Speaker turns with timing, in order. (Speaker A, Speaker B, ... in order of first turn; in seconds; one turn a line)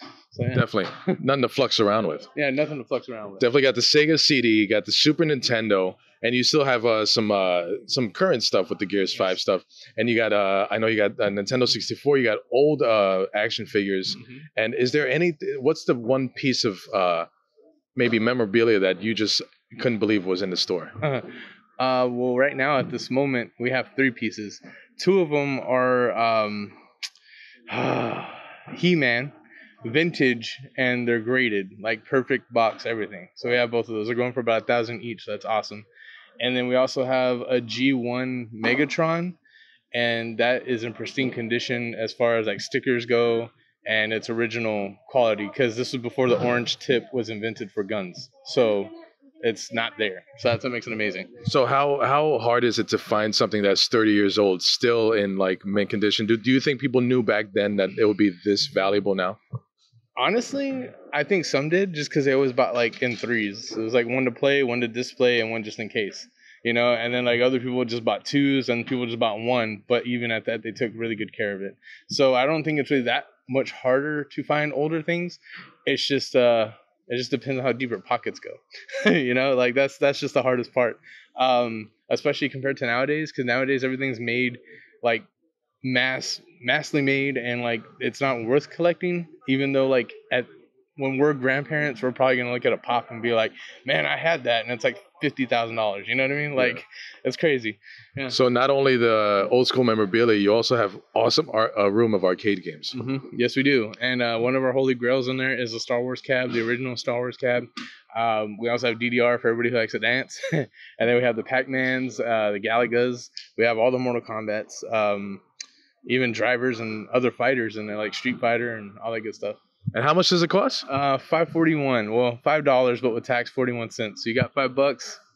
Speaker A: 0.3-0.7
Speaker B: 0.5-2.3
Speaker A: 2.4-3.5
Speaker B: 3.4-17.3
Speaker B: 18.0-20.9
Speaker A: 21.0-26.8
Speaker A: 27.7-35.9
Speaker A: 36.4-39.4
Speaker A: 39.9-48.9
Speaker A: 49.4-51.3
Speaker B: 51.4-59.4
Speaker A: 60.2-85.3
Speaker A: 85.8-98.3
Speaker B: 98.3-103.0
Speaker A: 102.9-115.4
Speaker A: 116.0-119.6
Speaker B: 119.9-120.9
Speaker A: 120.9-125.2